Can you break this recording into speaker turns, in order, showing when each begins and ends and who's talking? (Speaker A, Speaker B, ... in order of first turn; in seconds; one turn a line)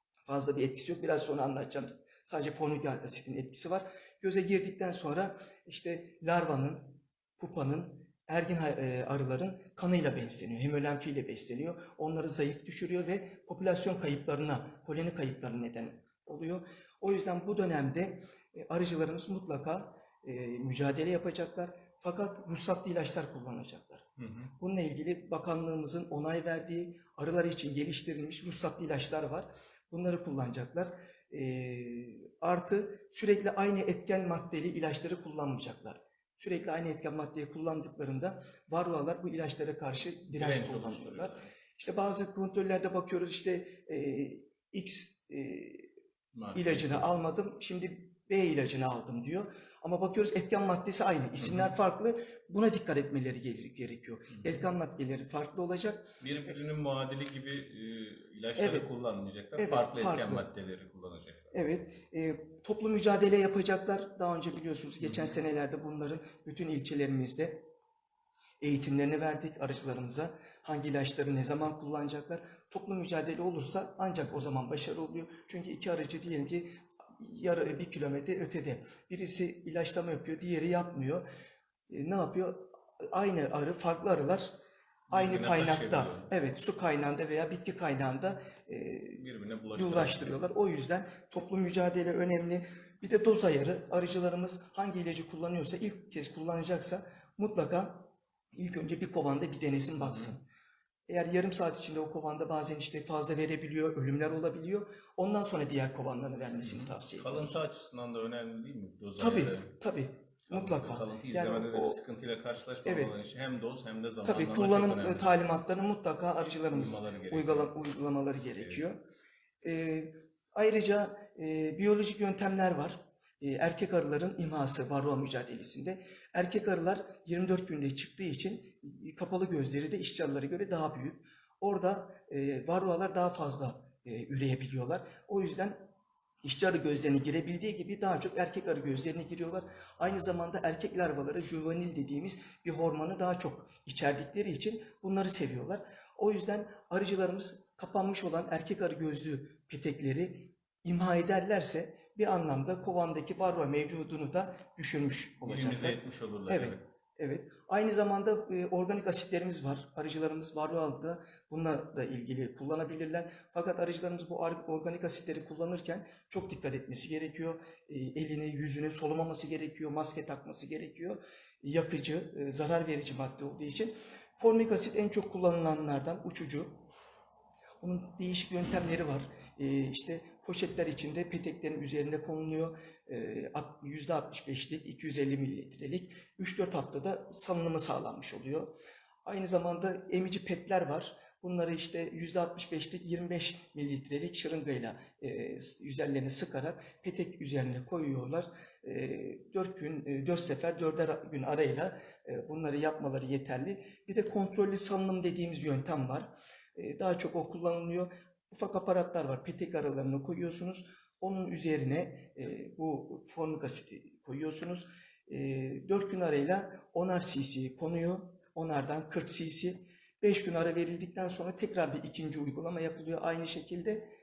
Speaker A: 0.3-45.9
Speaker B: 24.2-24.5
Speaker B: 40.3-41.5
Speaker B: 46.3-47.1
Speaker A: 46.5-56.1
Speaker B: 51.4-51.7
Speaker B: 54.4-54.6
Speaker B: 56.2-61.5
Speaker A: 58.6-58.9
Speaker A: 59.6-60.5
Speaker A: 61.5-67.6
Speaker B: 65.0-65.3
Speaker A: 68.6-81.3
Speaker A: 81.9-84.5
Speaker B: 85.1-86.3
Speaker A: 85.1-89.2
Speaker B: 89.1-90.4
Speaker A: 89.7-100.4
Speaker B: 100.0-100.3
Speaker A: 101.1-107.6
Speaker B: 106.6-109.8
Speaker A: 109.2-112.0
Speaker B: 110.5-115.4
Speaker A: 112.8-113.1
Speaker A: 114.2-119.0
Speaker B: 116.7-117.7
Speaker A: 119.6-135.8
Speaker A: 136.4-176.8
Speaker B: 155.4-156.8
Speaker A: 177.8-188.7
Speaker A: 189.2-224.1